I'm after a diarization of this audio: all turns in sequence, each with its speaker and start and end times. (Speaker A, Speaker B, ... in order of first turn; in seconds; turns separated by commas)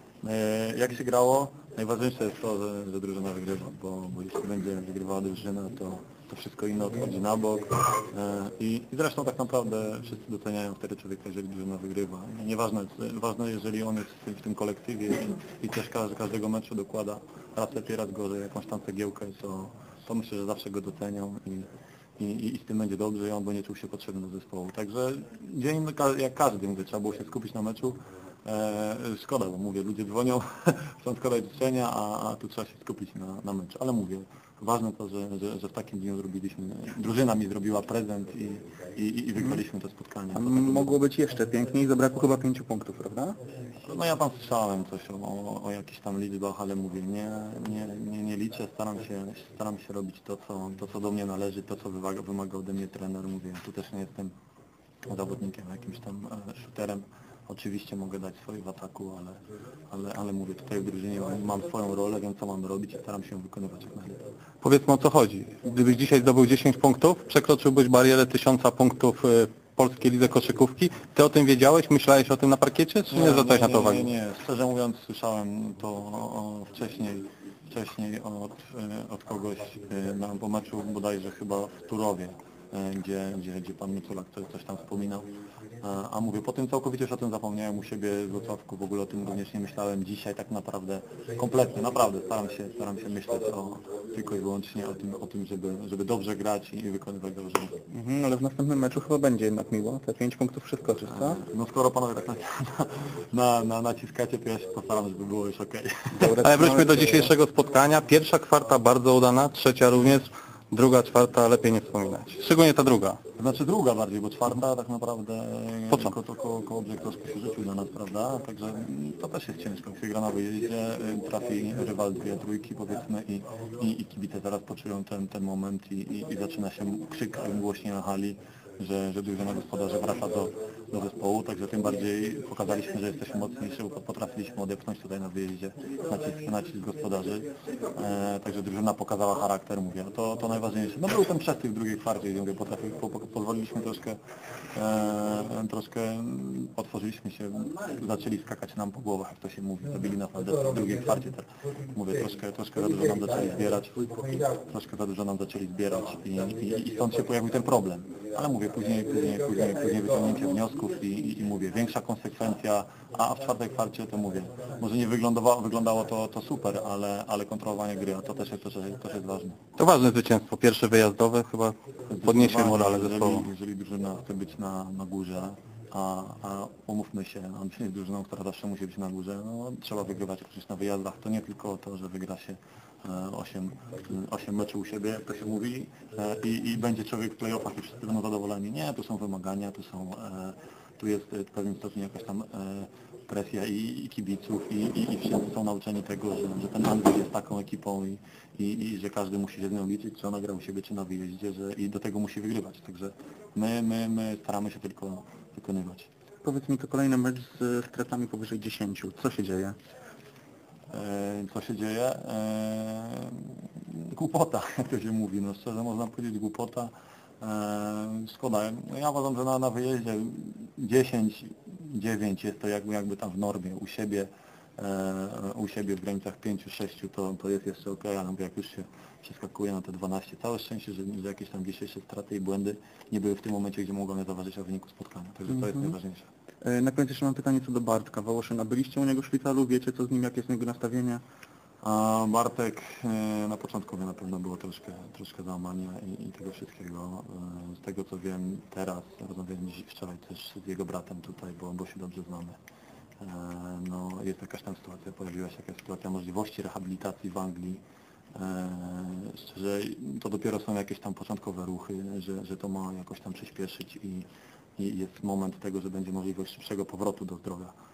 Speaker A: 0.2-41.0, Speaker B: 40.3-43.4, Speaker A: 43.8-54.3, Speaker A: 55.1-64.2, Speaker C: 64.6-74.1, Speaker A: 73.1-97.8, Speaker B: 97.9-101.4, Speaker A: 101.2-106.3, Speaker B: 106.2-107.3, Speaker C: 106.4-113.2, Speaker A: 113.4-144.2, Speaker A: 144.7-169.6, Speaker C: 169.8-173.5, Speaker A: 172.1-206.1, Speaker B: 206.4-209.8, Speaker A: 210.9-236.3, Speaker B: 235.5-235.9, Speaker B: 236.6-241.2, Speaker A: 241.8-252.6, Speaker A: 253.2-257.8, Speaker A: 258.4-264.3, Speaker A: 264.8-267.8